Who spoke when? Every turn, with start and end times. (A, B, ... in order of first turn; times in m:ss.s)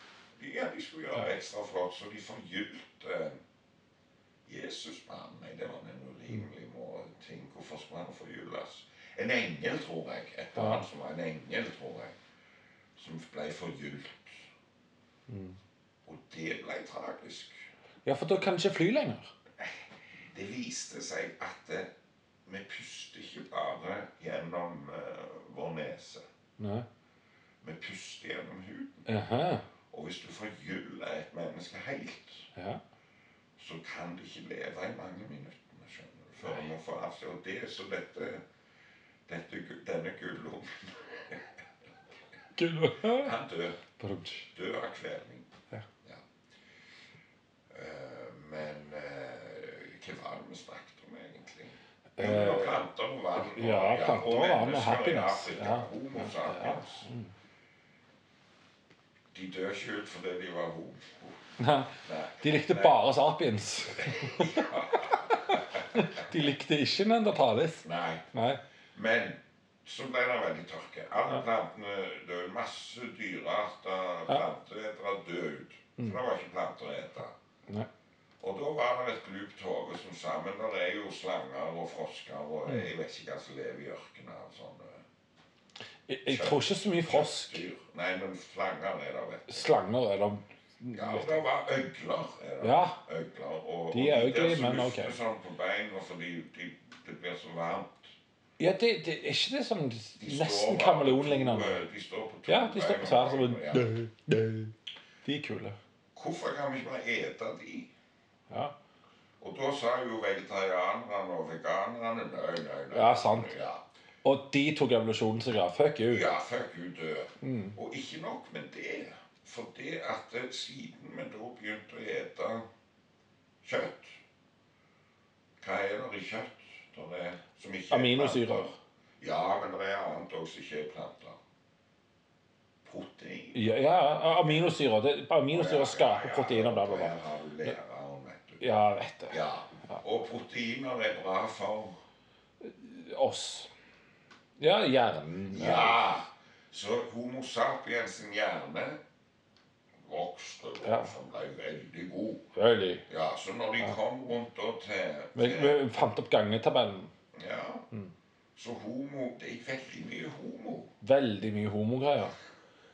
0:00.4-0:03.4 A
0:04.5-0:12.2 A
0:10.6-0:10.8 B
0:13.0-0:14.5 A
0:15.3-0:15.6 B
0:16.0-0:17.6 A
0:18.1-0:19.3 B
0:19.6-0:21.9 A
0:22.4-0:26.2 A
0:26.6-0:26.9 B
0:27.6-0:29.1 A
0:29.1-0:29.6 B
0:29.9-0:32.5 A
0:32.6-0:32.8 B
0:33.6-0:38.4 A
0:39.3-0:41.5 A
0:42.6-0:43.4 B
0:43.0-0:43.8 A
0:44.0-0:44.5 B
0:44.5-0:45.5 A
0:47.7-0:57.1 A
0:52.2-0:52.8 B
0:53.4-0:57.3 B
0:59.3-1:01.4 A
1:01.6-1:08.6 B
1:02.0-1:03.0 A
1:04.0-1:06.3 A
1:07.8-1:08.3 A
1:08.9-1:17.4 A
1:18.4-1:25.0 A
1:26.1-1:27.6 B
1:26.3-1:29.7 A
1:29.5-1:31.4 B
1:30.9-1:38.1 A
1:32.6-1:33.0 B
1:33.9-1:35.2 B
1:38.6-1:41.8 B
1:40.2-1:44.0 A
1:42.5-1:45.8 B
1:46.1-1:47.9 A
1:48.5-1:48.8 B
1:49.4-1:53.8 A
1:52.9-1:53.5 B
1:54.2-1:56.3 B
1:56.1-2:02.6 A
1:57.4-1:57.8 B
2:03.6-2:04.2 A
2:05.6-2:11.4 A
2:07.9-2:08.8 B
2:12.8-2:14.7 A
2:13.5-2:17.2 B
2:15.5-2:18.6 A
2:18.6-2:20.0 B
2:19.3-2:22.0 A
2:22.6-2:23.7 B
2:24.6-2:26.2 B
2:25.5-2:29.0 A
2:30.0-2:32.5 A
2:30.8-2:31.1 B
2:32.6-2:33.0 B
2:33.1-2:35.8 A
2:35.4-2:37.1 B
2:37.3-2:37.9 A
2:38.6-2:40.9 A
2:41.0-2:42.4 B